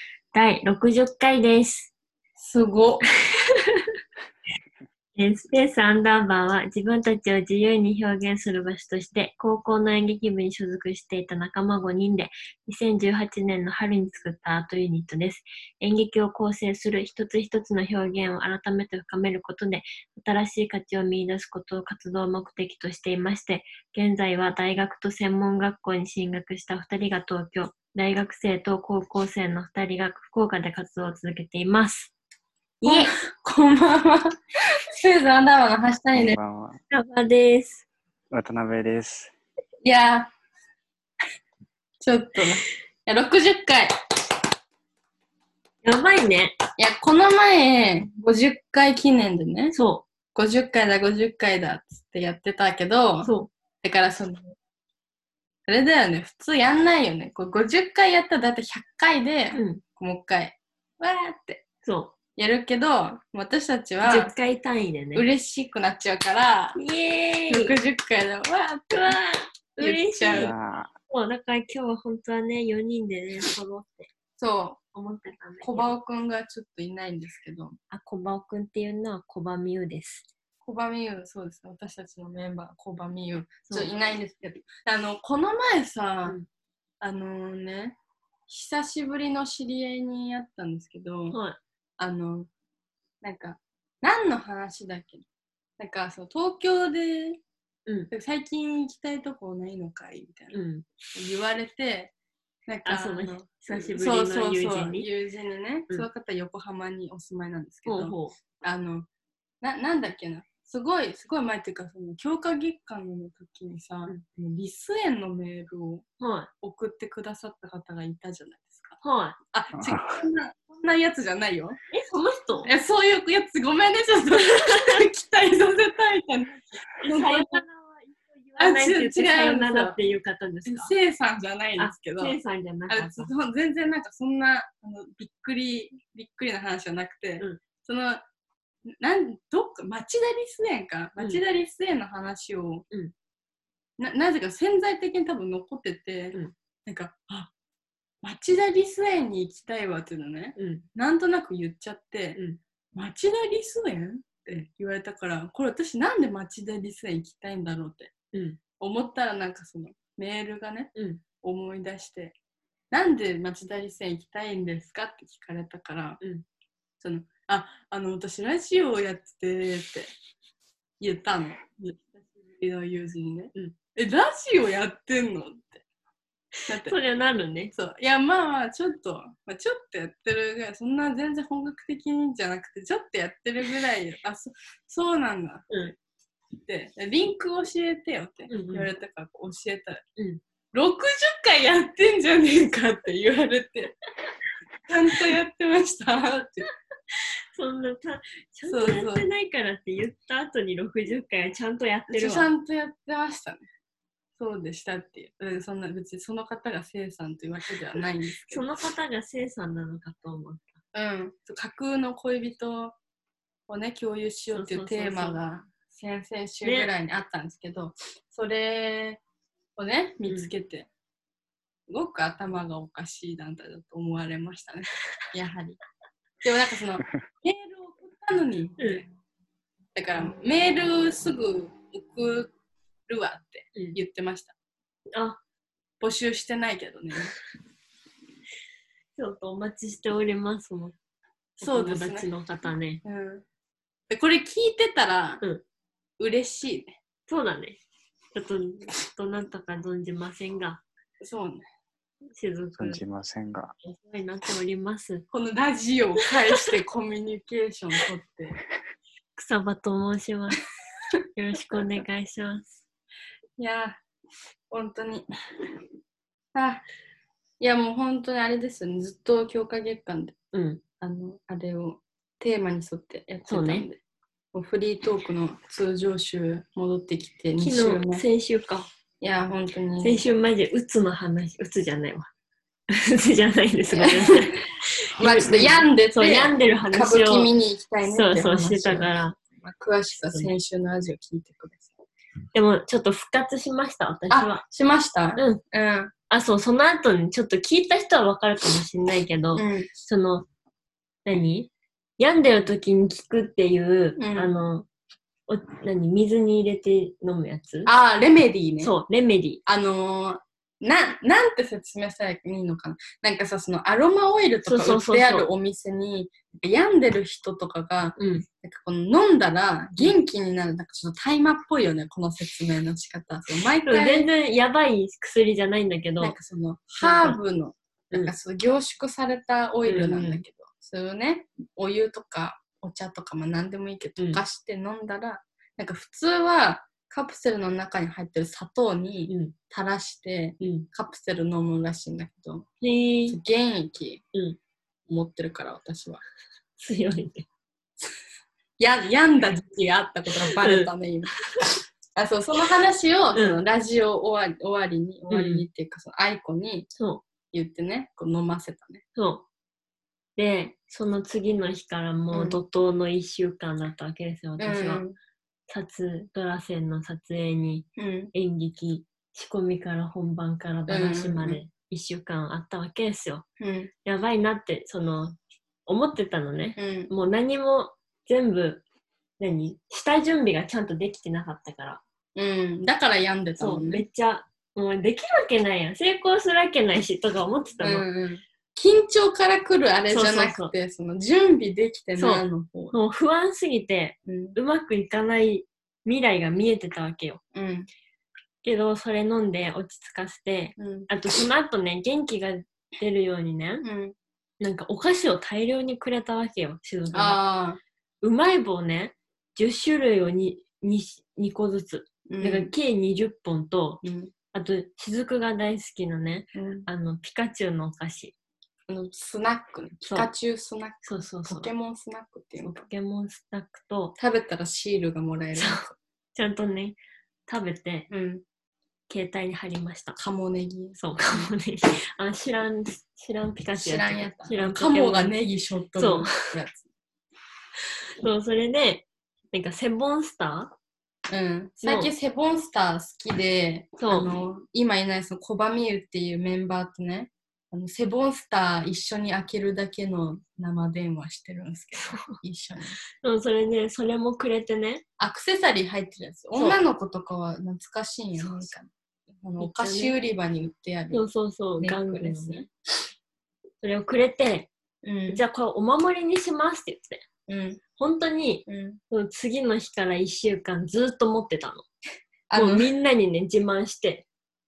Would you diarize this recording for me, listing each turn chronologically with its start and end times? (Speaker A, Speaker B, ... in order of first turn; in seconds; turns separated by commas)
Speaker A: 0.3-1.9, Speaker B: 2.4-3.0, Speaker A: 3.5-3.8, Speaker A: 5.2-32.1, Speaker A: 32.8-33.1, Speaker B: 32.8-34.3, Speaker B: 35.0-36.4, Speaker C: 36.1-36.8, Speaker A: 36.9-37.9, Speaker C: 38.3-39.3, Speaker B: 39.8-40.3, Speaker B: 42.0-43.9, Speaker A: 45.8-46.6, Speaker B: 46.8-49.7, Speaker A: 49.7-50.0, Speaker B: 50.3-53.3, Speaker A: 53.2-53.5, Speaker B: 53.8-54.5, Speaker B: 55.7-61.6, Speaker A: 59.5-59.8, Speaker A: 61.8-62.1, Speaker B: 62.4-64.3, Speaker A: 64.0-65.2, Speaker B: 65.1-66.8, Speaker A: 66.7-67.7, Speaker B: 67.5-69.2, Speaker A: 68.9-70.5, Speaker B: 69.8-70.5, Speaker C: 70.3-70.9, Speaker A: 71.1-74.1, Speaker B: 74.4-74.8, Speaker A: 74.9-75.9, Speaker B: 75.6-77.8, Speaker A: 77.9-80.2, Speaker B: 80.6-86.4, Speaker A: 83.7-83.9, Speaker B: 87.0-88.0, Speaker B: 88.5-91.4, Speaker A: 91.3-91.6, Speaker B: 92.0-92.5, Speaker B: 93.2-95.2, Speaker B: 95.8-97.4, Speaker B: 98.1-100.6, Speaker A: 100.5-100.8, Speaker B: 101.1-102.1, Speaker B: 102.7-109.1, Speaker A: 102.8-105.1, Speaker A: 107.8-108.3, Speaker B: 109.6-116.0, Speaker A: 116.2-116.5, Speaker B: 116.6-119.0, Speaker A: 119.0-119.3, Speaker B: 119.5-121.8, Speaker C: 119.8-120.1, Speaker A: 121.9-122.7, Speaker B: 122.7-127.6, Speaker A: 124.3-125.0, Speaker A: 127.0-130.9, Speaker B: 128.6-130.0, Speaker B: 130.7-132.4, Speaker A: 131.8-133.3, Speaker B: 132.9-138.2, Speaker B: 139.0-142.8, Speaker B: 144.0-147.5, Speaker B: 148.2-152.4, Speaker A: 150.6-150.8, Speaker B: 152.9-158.1, Speaker A: 158.3-158.6, Speaker B: 158.8-162.3, Speaker A: 160.9-161.2, Speaker B: 162.9-166.2, Speaker B: 167.0-170.1, Speaker B: 171.0-172.0, Speaker B: 172.6-175.8, Speaker A: 176.7-177.7, Speaker B: 176.7-176.9, Speaker B: 177.7-185.7, Speaker A: 185.7-185.9, Speaker B: 186.7-190.0, Speaker A: 188.5-188.9, Speaker B: 190.7-193.9, Speaker B: 194.9-196.7, Speaker A: 197.1-202.5, Speaker B: 198.7-199.3, Speaker B: 202.1-203.7, Speaker B: 204.4-208.7, Speaker A: 208.4-210.8, Speaker B: 210.9-212.9, Speaker B: 213.7-219.2, Speaker A: 214.5-215.4, Speaker A: 216.6-216.9, Speaker B: 219.8-220.9, Speaker B: 221.9-225.8, Speaker B: 226.4-229.1, Speaker A: 228.8-229.0, Speaker B: 229.9-232.5, Speaker B: 233.1-234.5, Speaker A: 235.1-235.4, Speaker B: 236.0-237.3, Speaker A: 239.2-240.9, Speaker B: 241.6-242.3, Speaker A: 241.6-243.0, Speaker B: 243.0-243.4, Speaker B: 244.1-245.4, Speaker B: 246.2-247.0, Speaker A: 247.3-247.8, Speaker A: 248.3-250.8, Speaker B: 251.2-251.6, Speaker A: 252.3-253.0, Speaker C: 252.8-253.7, Speaker A: 253.8-255.2, Speaker B: 255.3-258.6, Speaker A: 259.4-260.6, Speaker A: 261.4-262.8, Speaker B: 263.6-264.0, Speaker B: 264.7-265.2, Speaker B: 266.5-266.8, Speaker B: 267.6-270.3, Speaker A: 270.5-270.8, Speaker B: 271.0-274.0, Speaker A: 273.5-273.9, Speaker B: 274.5-278.2, Speaker A: 277.6-278.9, Speaker B: 279.2-280.2, Speaker A: 280.0-282.3, Speaker A: 282.9-284.6, Speaker B: 283.9-284.6, Speaker A: 285.2-287.5, Speaker B: 285.2-291.9, Speaker A: 288.0-289.4, Speaker A: 290.2-290.5, Speaker A: 292.5-294.6, Speaker B: 294.3-296.1, Speaker A: 296.3-300.5, Speaker B: 299.5-299.9, Speaker A: 301.2-304.9, Speaker B: 304.2-304.5, Speaker A: 305.5-307.9, Speaker B: 307.9-308.9, Speaker A: 308.8-309.6, Speaker B: 309.6-324.3, Speaker A: 314.7-315.5, Speaker A: 318.2-318.4, Speaker A: 323.8-326.3, Speaker B: 326.2-342.7, Speaker A: 327.0-327.4, Speaker A: 329.9-330.4, Speaker A: 339.3-339.5, Speaker A: 340.6-340.9, Speaker A: 342.8-343.4, Speaker B: 343.3-344.2, Speaker B: 345.1-346.2, Speaker A: 346.8-347.4, Speaker B: 348.8-351.3, Speaker A: 350.4-351.7, Speaker B: 352.1-356.9, Speaker A: 353.3-353.6, Speaker A: 355.3-355.6, Speaker A: 356.9-357.2, Speaker B: 357.5-359.0, Speaker A: 359.1-359.4, Speaker A: 360.4-365.0, Speaker B: 362.3-362.6, Speaker B: 364.6-365.1, Speaker A: 365.7-373.4, Speaker B: 368.0-368.3, Speaker B: 370.9-371.6, Speaker B: 373.6-373.9, Speaker A: 374.0-375.4, Speaker A: 375.9-378.8, Speaker B: 376.8-377.1, Speaker A: 379.4-382.0, Speaker B: 382.3-384.0, Speaker A: 383.6-388.1, Speaker B: 387.8-392.9, Speaker A: 390.1-390.7, Speaker A: 392.2-397.4, Speaker B: 394.2-394.6, Speaker B: 397.5-397.9, Speaker A: 398.6-403.8, Speaker B: 400.8-401.1, Speaker B: 403.8-404.1, Speaker A: 404.6-407.4, Speaker B: 407.1-407.8, Speaker A: 408.2-418.3, Speaker B: 412.3-412.7, Speaker B: 414.0-414.3, Speaker B: 416.5-416.9, Speaker B: 418.9-422.8, Speaker A: 421.1-421.7, Speaker A: 422.6-424.1, Speaker B: 424.2-425.9, Speaker A: 425.5-425.8, Speaker A: 426.3-428.1, Speaker B: 428.1-428.4, Speaker A: 429.1-430.2, Speaker B: 430.2-431.5, Speaker A: 430.9-435.3, Speaker B: 433.7-436.9, Speaker A: 436.0-436.5, Speaker A: 438.2-440.7, Speaker B: 441.3-453.0, Speaker A: 441.8-442.1, Speaker A: 444.0-444.3, Speaker A: 451.9-452.4, Speaker A: 453.2-455.0, Speaker B: 455.2-458.9, Speaker A: 456.5-456.8, Speaker A: 458.4-458.7, Speaker B: 459.4-461.2, Speaker A: 459.6-460.1, Speaker A: 461.1-462.7, Speaker B: 461.8-462.7, Speaker A: 463.8-464.7, Speaker B: 465.0-465.4, Speaker A: 465.3-467.2, Speaker B: 467.5-467.8, Speaker A: 468.0-471.9, Speaker B: 468.7-469.0, Speaker B: 472.5-472.9, Speaker A: 472.5-474.2